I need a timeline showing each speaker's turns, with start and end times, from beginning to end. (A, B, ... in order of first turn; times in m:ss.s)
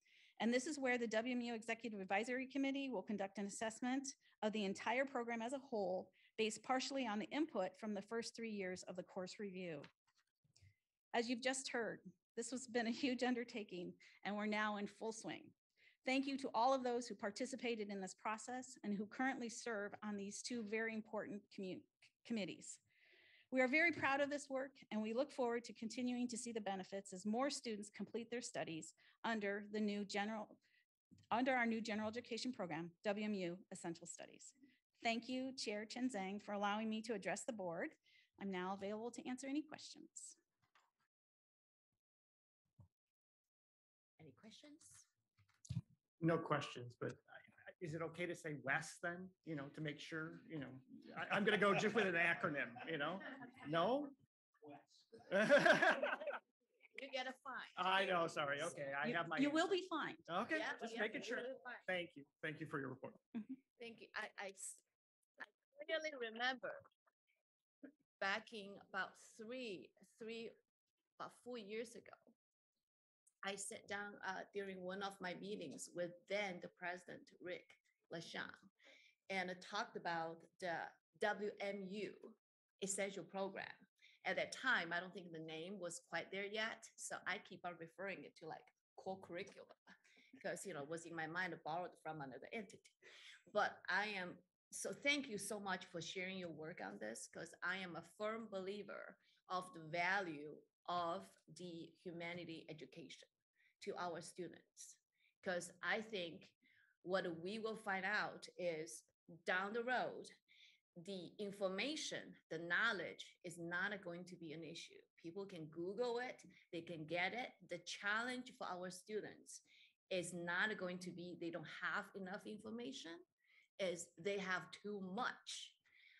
0:00.4-0:09.9 A
0:11.1-0:15.5 A
0:16.0-0:22.8 A
0:23.5-0:30.6 A
0:31.3-0:40.4 A
0:44.2-0:45.0 B
0:46.2-0:54.1 C
0:55.3-0:56.3 C
0:57.0-0:58.0 B
0:57.8-0:59.7 C
0:59.0-1:00.2 A
1:00.3-1:03.2 C
1:00.5-1:01.8 B
1:03.8-1:04.8 B
1:05.4-1:06.8 B
1:08.2-1:10.5 B
1:11.2-1:12.3 B
1:13.4-1:18.6 B
1:19.3-1:29.8 B
1:30.4-1:32.9 B
1:33.5-1:43.3 B
1:43.8-1:50.3 B
1:51.0-2:03.2 B
2:03.8-2:05.8 B